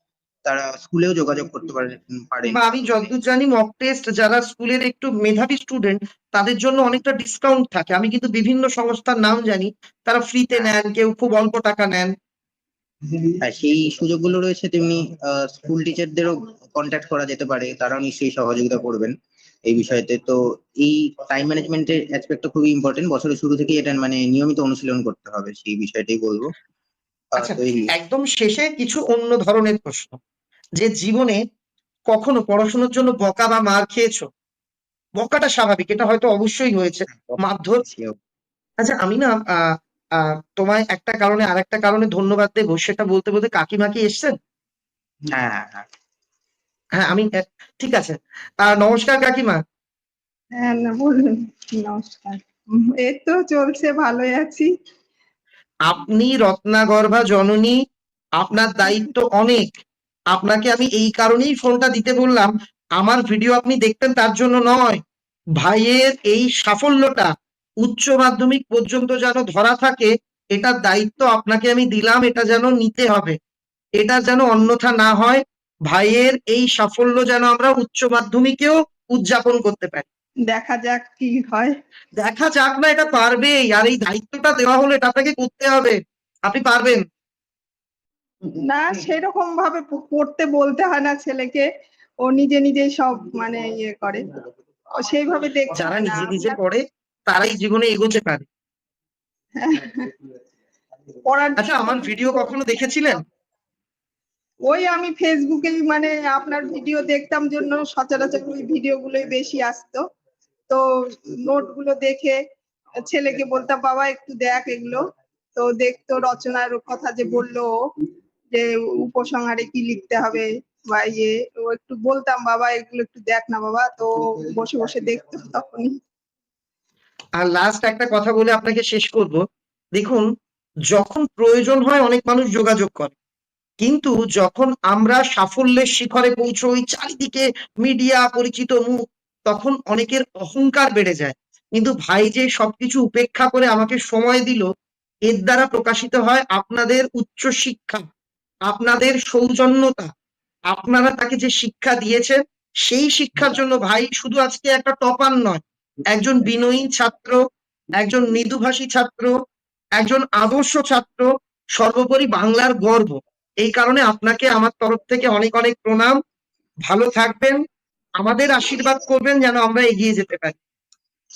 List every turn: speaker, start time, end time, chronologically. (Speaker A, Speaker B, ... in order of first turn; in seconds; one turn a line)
Speaker A: 0.5-3.1
Speaker B: 2.5-12.1
Speaker A: 13.4-19.1
Speaker A: 19.7-26.5
Speaker A: 27.4-27.9
Speaker B: 27.4-30.2
Speaker B: 30.8-31.4
Speaker B: 32.1-34.3
Speaker B: 35.2-37.8
Speaker A: 37.1-38.2
Speaker B: 38.8-44.4
Speaker A: 45.3-45.9
Speaker B: 47.0-49.6
Speaker C: 50.6-54.7
Speaker B: 55.9-57.8
Speaker B: 58.4-59.7
Speaker B: 60.3-65.0
Speaker B: 65.6-73.4
Speaker B: 74.0-80.1
Speaker C: 80.5-81.7
Speaker B: 82.2-87.0
Speaker C: 88.7-91.7
Speaker C: 92.2-94.2
Speaker C: 95.0-96.6
Speaker B: 95.8-98.5
Speaker C: 99.6-100.1
Speaker C: 101.2-102.7
Speaker B: 101.6-103.2
Speaker C: 104.7-110.0
Speaker C: 110.7-112.4
Speaker C: 113.0-115.0
Speaker C: 115.6-117.7
Speaker C: 118.5-126.0
Speaker B: 127.4-129.4
Speaker B: 129.9-130.3
Speaker B: 130.9-133.2
Speaker B: 133.8-144.7
Speaker B: 145.3-148.1
Speaker B: 148.7-150.1
Speaker B: 150.7-157.4
Speaker B: 158.0-159.3
Speaker B: 160.0-166.2
Speaker B: 166.9-167.6
Speaker B: 168.2-170.6